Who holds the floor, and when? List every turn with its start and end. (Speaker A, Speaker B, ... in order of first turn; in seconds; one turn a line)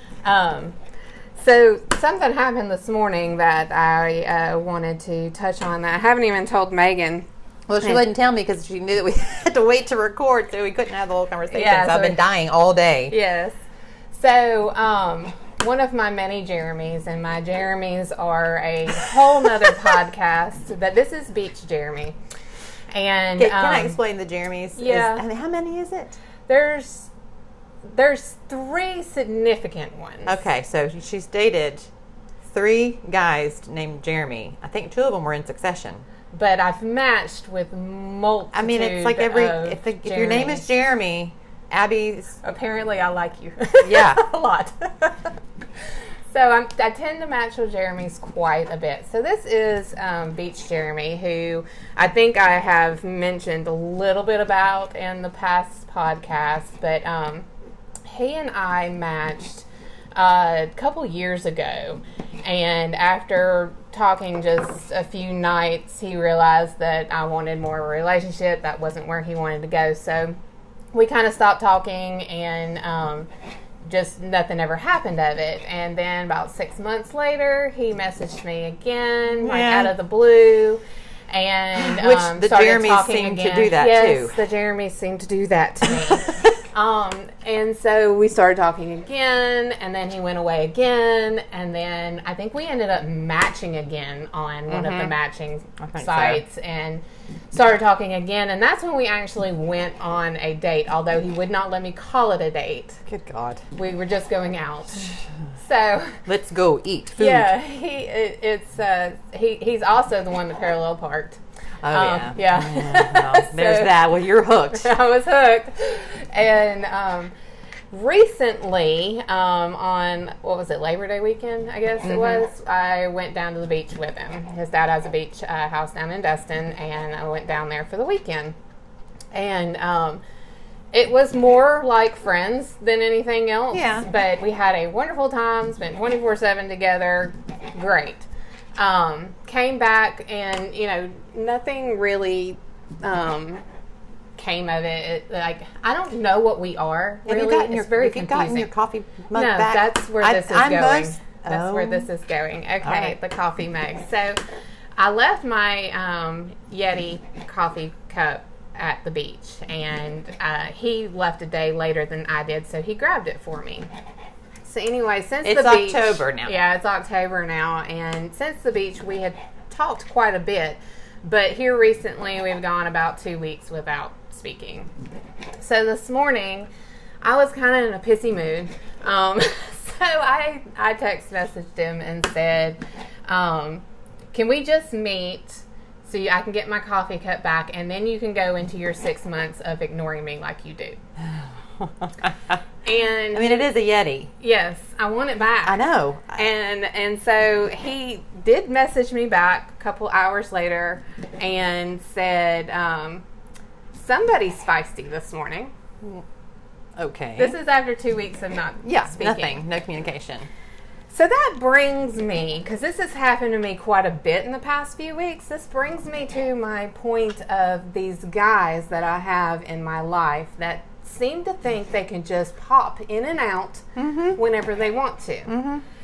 Speaker A: 0.2-0.8
Speaker A: 1.4-7.3
Speaker B: 7.7-13.1
Speaker A: 11.5-12.2
Speaker A: 13.1-13.6
Speaker A: 14.1-22.1
Speaker A: 22.9-24.0
Speaker B: 23.4-26.2
Speaker A: 24.8-25.2
Speaker A: 26.5-27.1
Speaker A: 27.8-30.4
Speaker B: 30.2-31.9
Speaker B: 32.4-36.0
Speaker A: 36.3-40.6
Speaker B: 38.5-42.4
Speaker A: 42.4-45.3
Speaker B: 43.8-44.2
Speaker A: 46.3-57.5
Speaker A: 58.0-70.3
Speaker A: 70.9-73.3
Speaker A: 73.8-103.0
Speaker B: 79.4-79.9
Speaker B: 81.8-84.3
Speaker B: 94.7-95.2
Speaker B: 95.8-96.4
Speaker B: 103.1-103.6
Speaker A: 103.7-106.2
Speaker B: 106.2-107.5
Speaker A: 107.2-111.4
Speaker B: 111.8-114.9
Speaker A: 111.9-114.0
Speaker A: 114.7-117.3
Speaker A: 117.9-128.5
Speaker B: 122.0-122.4
Speaker A: 129.3-130.2
Speaker A: 130.9-143.6
Speaker B: 133.7-134.1
Speaker A: 144.4-148.7
Speaker B: 147.2-152.1
Speaker A: 149.3-154.4
Speaker B: 152.8-153.2
Speaker A: 155.0-163.9
Speaker A: 164.6-174.9
Speaker B: 165.4-166.5
Speaker A: 175.6-176.7
Speaker A: 177.2-191.0
Speaker B: 191.2-192.6
Speaker A: 192.8-193.7
Speaker B: 193.3-194.3
Speaker A: 194.4-195.8
Speaker B: 195.6-196.4
Speaker A: 196.3-203.2
Speaker A: 203.9-205.7
Speaker B: 206.9-207.6
Speaker A: 207.4-209.6
Speaker B: 208.8-210.5
Speaker A: 211.1-225.5
Speaker B: 223.9-224.4
Speaker B: 225.5-225.8